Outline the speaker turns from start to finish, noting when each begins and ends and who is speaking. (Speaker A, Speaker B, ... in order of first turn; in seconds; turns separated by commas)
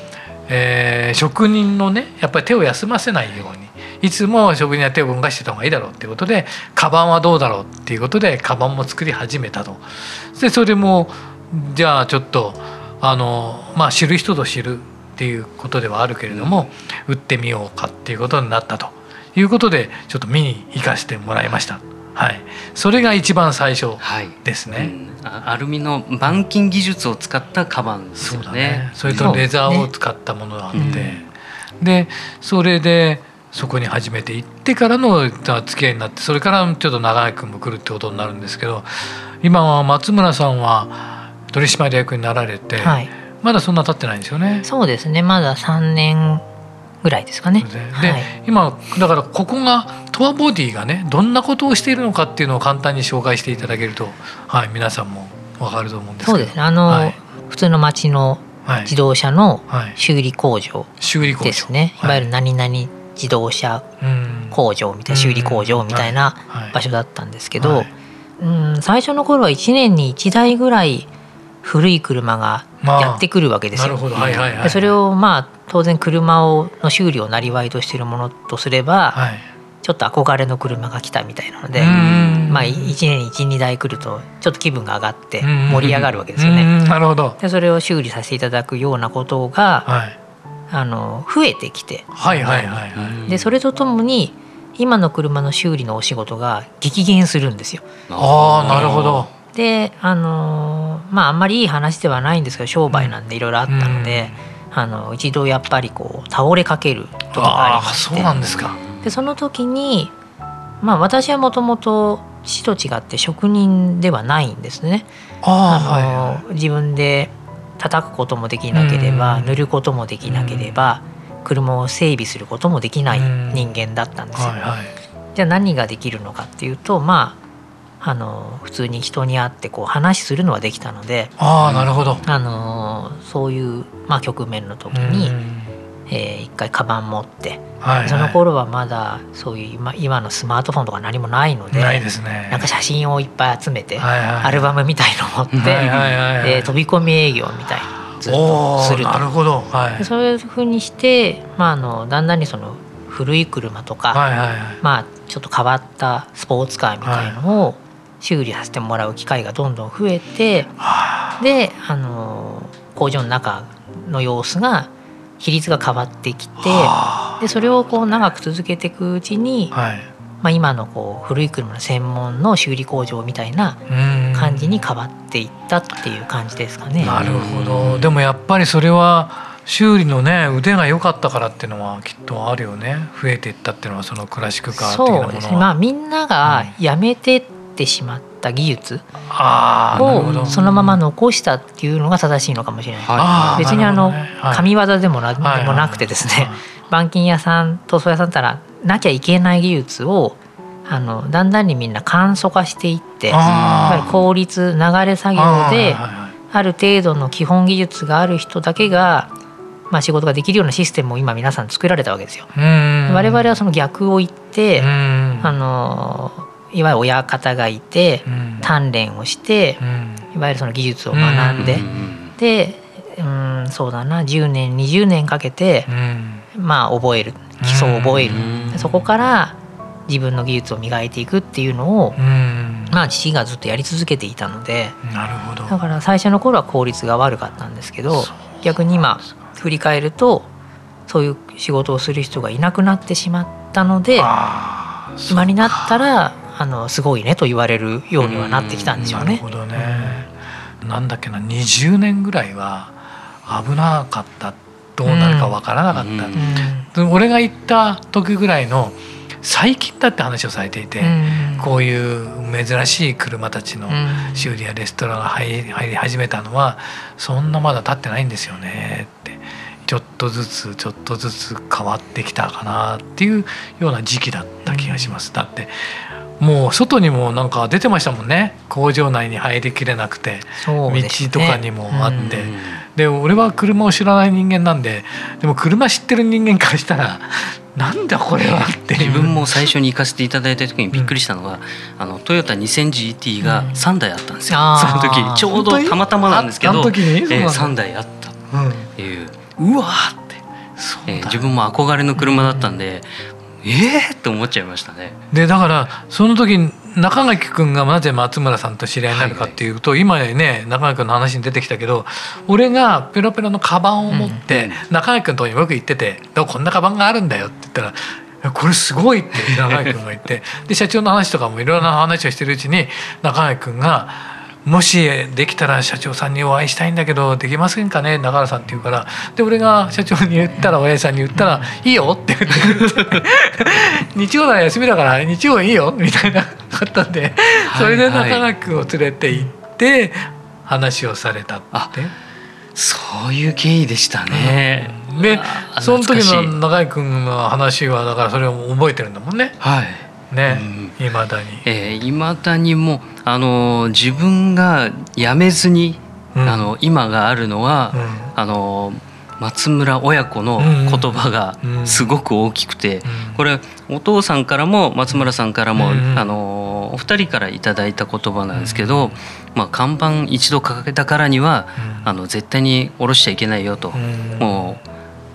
Speaker A: 0.5-24.9, Speaker B: 16.3-16.6, Speaker B: 24.0-29.4, Speaker A: 28.2-31.2, Speaker C: 29.1-29.9, Speaker B: 30.7-31.3, Speaker A: 31.8-44.7, Speaker C: 42.8-43.1, Speaker C: 44.6-46.4, Speaker C: 47.0-48.3, Speaker A: 47.6-57.2, Speaker C: 56.2-60.9, Speaker A: 58.6-58.9, Speaker A: 59.7-60.0, Speaker A: 61.0-62.3, Speaker C: 61.4-63.9, Speaker A: 64.0-66.8, Speaker C: 64.5-71.1, Speaker A: 67.6-67.9, Speaker C: 71.6-79.2, Speaker A: 72.8-74.9, Speaker B: 74.2-74.6, Speaker A: 79.1-79.5, Speaker C: 79.8-86.7, Speaker A: 81.8-83.0, Speaker B: 81.9-82.4, Speaker A: 85.4-87.4, Speaker C: 87.4-89.9, Speaker A: 89.9-90.2, Speaker C: 90.7-97.9, Speaker A: 92.1-93.2, Speaker B: 93.0-93.5, Speaker B: 98.1-99.3, Speaker A: 98.2-99.3, Speaker C: 99.5-108.3, Speaker A: 102.9-103.2, Speaker A: 103.7-104.3, Speaker A: 107.3-108.8, Speaker B: 108.4-109.1, Speaker C: 109.0-110.1, Speaker C: 110.8-115.1, Speaker A: 115.4-116.4, Speaker C: 115.7-124.6, Speaker A: 118.7-119.6, Speaker A: 120.2-120.8, Speaker A: 123.1-123.7, Speaker A: 124.3-124.9, Speaker C: 125.3-127.4, Speaker C: 128.0-131.3, Speaker A: 131.4-132.2, Speaker B: 131.6-131.9, Speaker C: 132.2-135.3, Speaker A: 134.9-135.8, Speaker C: 136.1-149.3, Speaker A: 137.8-138.4, Speaker A: 141.7-142.7, Speaker A: 144.0-144.7, Speaker B: 145.5-146.1, Speaker A: 145.6-146.7, Speaker A: 148.2-150.1, Speaker C: 150.0-154.2, Speaker A: 154.1-154.8, Speaker C: 154.8-160.7, Speaker A: 157.0-157.4, Speaker A: 160.8-161.4, Speaker C: 161.4-169.7, Speaker A: 166.6-167.4, Speaker A: 169.7-170.1, Speaker C: 170.4-173.8, Speaker A: 173.9-174.8, Speaker C: 174.3-177.2, Speaker A: 177.0-185.7, Speaker B: 177.0-178.2, Speaker C: 184.7-189.1, Speaker A: 186.4-186.8, Speaker A: 189.3-191.0, Speaker B: 189.9-190.6, Speaker C: 190.0-209.3, Speaker B: 193.0-193.8, Speaker A: 193.2-194.7, Speaker A: 195.4-196.6, Speaker A: 203.3-204.2, Speaker B: 203.4-204.2, Speaker A: 205.4-206.3, Speaker C: 209.9-212.5, Speaker A: 212.5-213.6, Speaker C: 213.1-214.9, Speaker A: 214.8-215.5, Speaker C: 215.4-221.9, Speaker A: 218.3-218.7, Speaker A: 219.8-220.2, Speaker A: 221.1-221.9, Speaker B: 221.6-222.3, Speaker C: 222.4-225.9, Speaker A: 225.9-226.4, Speaker C: 226.5-232.2, Speaker A: 227.6-229.0, Speaker B: 228.2-228.8, Speaker A: 232.2-233.0, Speaker C: 232.9-235.0, Speaker A: 235.0-235.8, Speaker C: 235.7-240.5, Speaker A: 238.1-239.4, Speaker C: 241.1-244.3, Speaker A: 244.2-246.1, Speaker C: 245.3-250.2, Speaker B: 248.2-249.3, Speaker A: 249.0-250.3, Speaker A: 250.8-252.9, Speaker A: 253.5-289.7, Speaker C: 255.1-255.6, Speaker B: 255.9-256.5, Speaker C: 256.4-256.9, Speaker C: 261.0-261.7, Speaker C: 263.9-264.5, Speaker C: 274.6-275.1, Speaker C: 280.6-282.4, Speaker B: 282.2-282.8, Speaker B: 288.9-298.4, Speaker C: 293.4-293.8, Speaker C: 294.5-295.5, Speaker A: 294.9-297.8, Speaker A: 298.5-298.9, Speaker B: 299.0-299.5, Speaker A: 299.6-301.5, Speaker B: 301.1-303.1, Speaker A: 302.2-302.8, Speaker B: 303.6-305.2, Speaker A: 305.3-342.1, Speaker B: 309.1-309.6, Speaker C: 314.1-314.4, Speaker B: 314.5-314.8, Speaker B: 319.4-319.9, Speaker B: 337.7-338.5, Speaker B: 342.8-346.6, Speaker A: 344.3-349.6, Speaker B: 349.6-351.0, Speaker A: 350.3-351.7, Speaker B: 351.6-374.8, Speaker A: 356.4-356.7, Speaker A: 357.9-358.3, Speaker A: 360.6-362.1, Speaker A: 363.1-363.4, Speaker A: 365.1-366.3, Speaker A: 368.5-369.1, Speaker A: 371.8-372.1, Speaker A: 373.9-374.8